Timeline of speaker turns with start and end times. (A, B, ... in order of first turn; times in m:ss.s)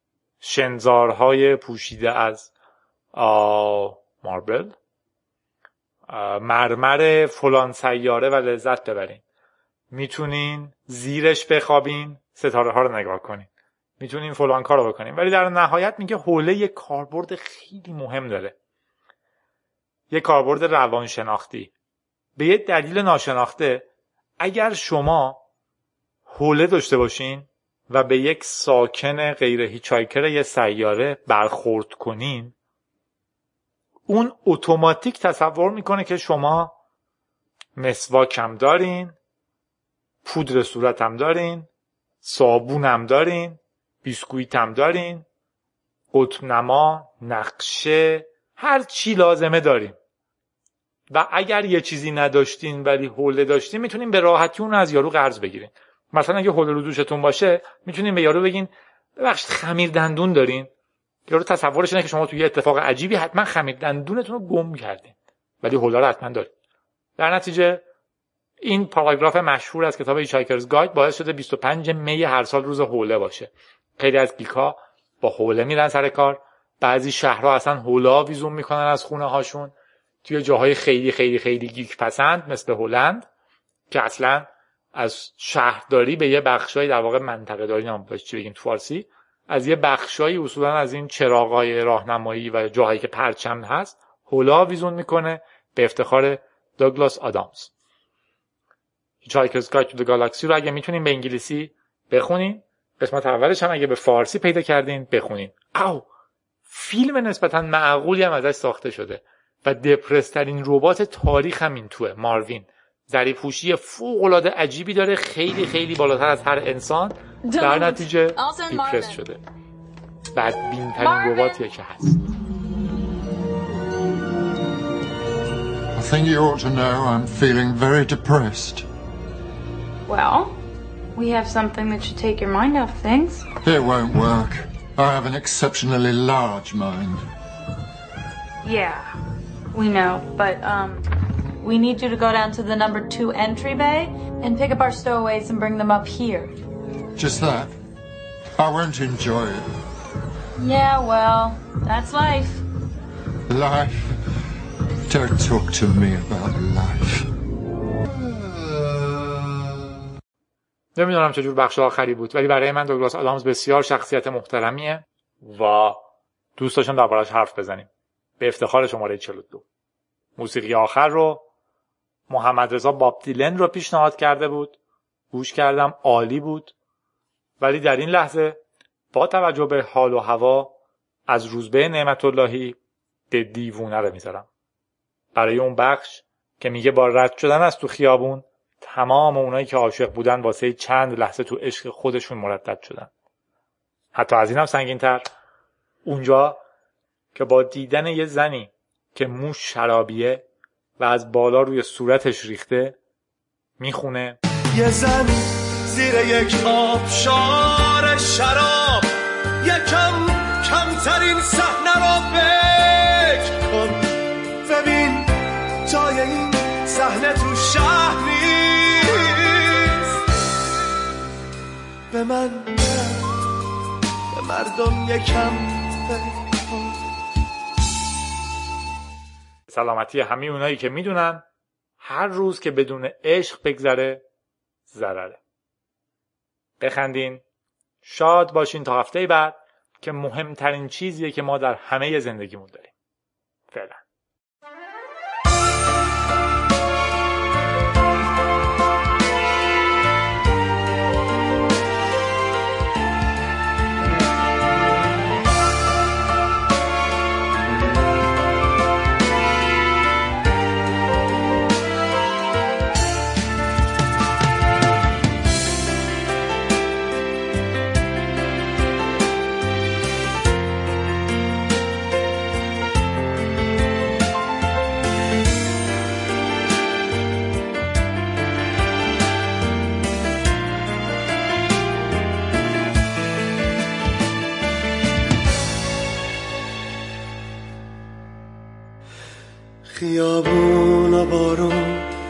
0:00.4-0:02.5 A
0:03.1-0:04.8 A
0:06.1-0:09.2 A
0:09.9-0:13.5 A
0:14.0-0:18.6 A
0:20.1-0:21.7 A
0:22.4-0:23.9 A
0:24.4-0:25.4 A
0:26.3-0:32.6 A
0:34.1-0:36.7 A
0:37.8-0:39.2 A
0:40.2-0:41.7 A
0:42.2-0:45.3 A
0:46.1-0:50.0 A
0:51.1-1:00.7 A
1:01.3-1:06.5 A
1:07.2-1:07.8 A
1:08.6-1:19.7 A
1:20.2-1:23.3 A
1:23.9-1:37.7 A
1:39.2-1:46.0 A
1:46.7-1:59.4 A
1:57.4-1:59.2 B
2:00.4-2:02.2 A
2:01.0-2:01.6 B
2:06.0-2:08.9 C
2:10.1-2:10.5 B
2:11.2-2:13.5 B
2:13.6-2:17.2 C
2:18.6-2:19.1 B
2:19.7-2:21.1 B
2:21.6-2:26.5 B
2:27.2-2:27.8 C
2:28.6-2:29.7 C
2:30.6-2:32.6 B
2:33.5-2:34.3 C
2:35.1-2:37.3 C
2:41.0-2:46.0 A
2:46.6-2:47.9 A
2:48.4-2:49.6 A
2:50.4-2:51.5 A
2:52.3-2:54.8 A
2:55.3-2:56.7 A
2:57.6-2:58.6 A
2:59.1-3:00.7 A
3:01.3-3:02.8 A
3:03.3-3:04.5 A
3:05.4-3:13.1 A
3:14.2-3:15.2 A
3:16.0-3:16.6 A
3:17.4-3:20.4 A
3:21.0-3:23.0 A
3:23.8-3:24.4 A
3:24.7-3:40.2 D
3:42.1-3:43.4 D
3:44.3-3:47.0 D
3:49.7-3:51.4 A
3:52.0-3:54.2 A
3:54.9-3:55.4 A
3:56.8-3:57.4 A
3:58.0-4:02.9 A
4:03.7-4:04.0 A
4:49.9-4:52.1 D